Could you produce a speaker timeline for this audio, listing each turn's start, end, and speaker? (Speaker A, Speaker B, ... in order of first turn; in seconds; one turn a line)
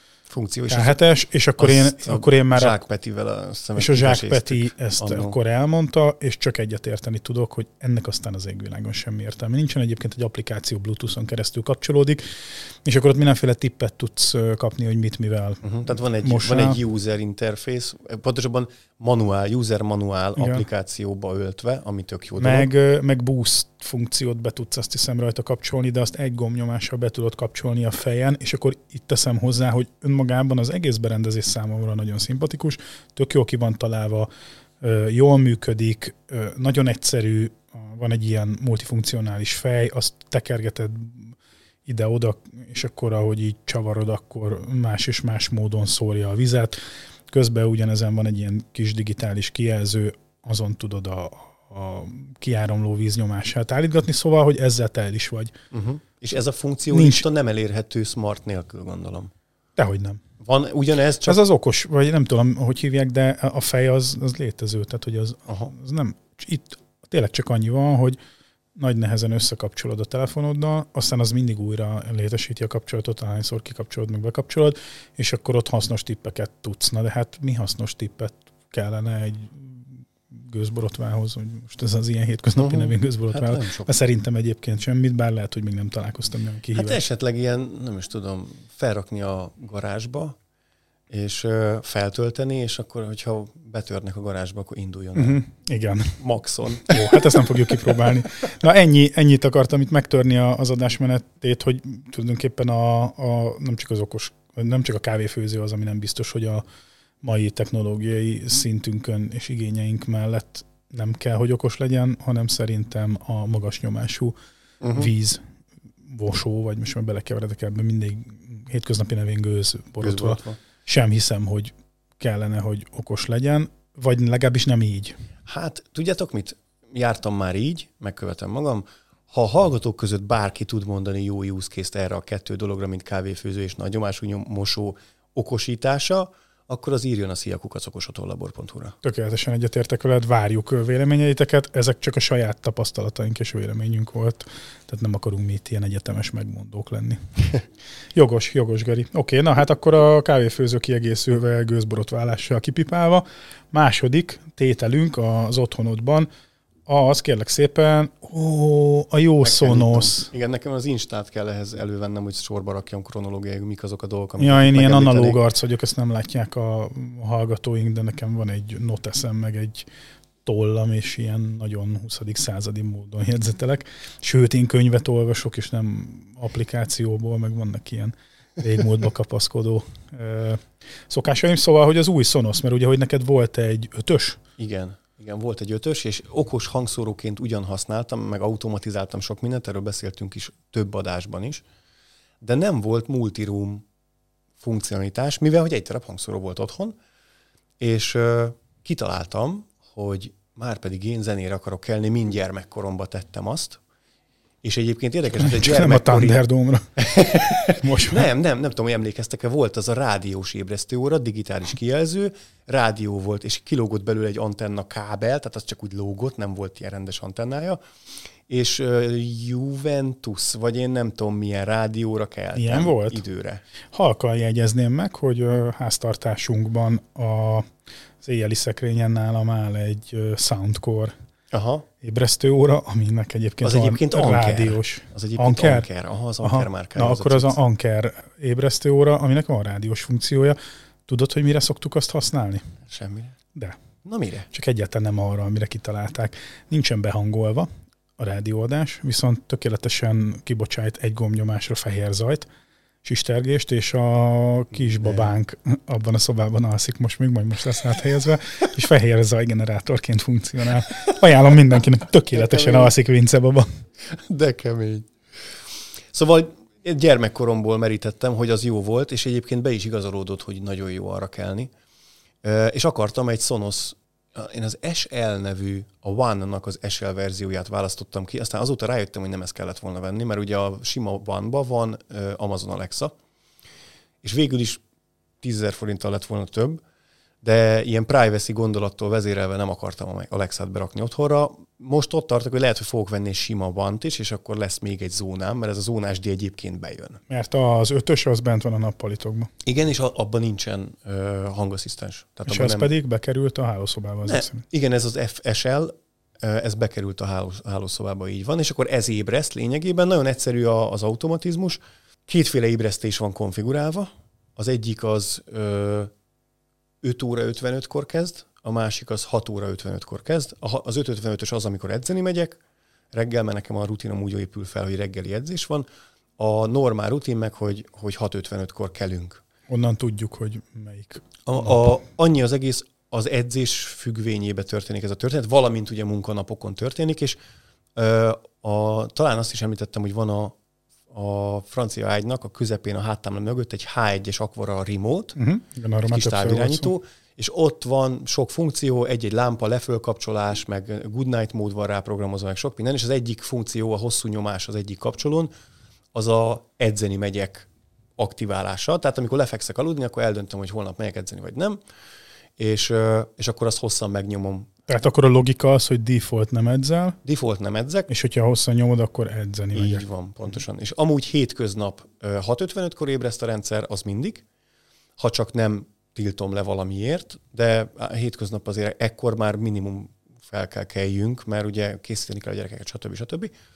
Speaker A: 0.3-1.0
Speaker B: 0.7-2.8
Speaker A: 1.6-5.3
Speaker B: 3.8-16.8
Speaker A: 15.6-22.7
Speaker B: 20.4-20.6
Speaker B: 22.4-34.3
Speaker B: 34.8-55.5
Speaker A: 55.7-59.3
Speaker B: 56.9-57.2
Speaker B: 59.8-60.2
Speaker A: 60.4-61.4
Speaker B: 61.3-68.2
Speaker B: 68.8-87.0
Speaker A: 82.6-83.9
Speaker A: 86.7-90.4
Speaker A: 91.1-95.4
Speaker B: 95.2-96.2
Speaker A: 96.2-97.9
Speaker B: 96.8-106.6
Speaker B: 107.2-114.3
Speaker A: 114.8-115.1
Speaker B: 114.9-115.4
Speaker B: 116.0-125.2
Speaker A: 120.0-120.6
Speaker A: 125.5-138.9
Speaker B: 139.0-147.5
Speaker B: 148.2-156.3
Speaker B: 156.9-160.3
Speaker A: 159.4-165.4
Speaker B: 164.4-169.9
Speaker B: 170.4-184.4
Speaker A: 184.6-191.6
Speaker A: 192.4-193.8
Speaker A: 194.6-197.0
Speaker A: 197.8-203.8
Speaker A: 204.6-206.4
Speaker B: 205.4-208.3
Speaker A: 207.0-217.8
Speaker A: 218.5-223.6
Speaker B: 222.6-223.2
Speaker B: 223.9-227.7
Speaker B: 228.2-231.1
Speaker A: 231.5-231.9
Speaker B: 232.0-235.9
Speaker A: 233.6-237.6
Speaker B: 236.4-242.7
Speaker A: 242.9-243.4
Speaker A: 244.0-244.5
Speaker B: 244.5-252.5
Speaker B: 253.0-263.7
Speaker A: 254.8-255.3
Speaker A: 262.3-262.9
Speaker A: 264.1-265.1
Speaker A: 266.1-271.7
Speaker A: 272.4-283.1
Speaker A: 284.2-284.8
Speaker A: 285.4-286.8
Speaker A: 287.4-297.2
Speaker B: 297.3-299.5
Speaker A: 299.6-302.9
Speaker B: 302.5-304.6
Speaker A: 304.3-316.1
Speaker A: 317.0-322.6
Speaker A: 323.1-325.9
Speaker A: 326.4-329.4
Speaker B: 329.7-331.9
Speaker A: 331.5-337.4
Speaker A: 338.0-340.6
Speaker A: 341.1-345.4
Speaker B: 345.4-346.9
Speaker A: 346.1-355.5
Speaker A: 356.1-361.8
Speaker A: 362.6-364.7
Speaker B: 364.9-367.2
Speaker A: 367.2-368.1
Speaker B: 368.1-370.0
Speaker A: 369.8-374.4
Speaker A: 375.2-383.5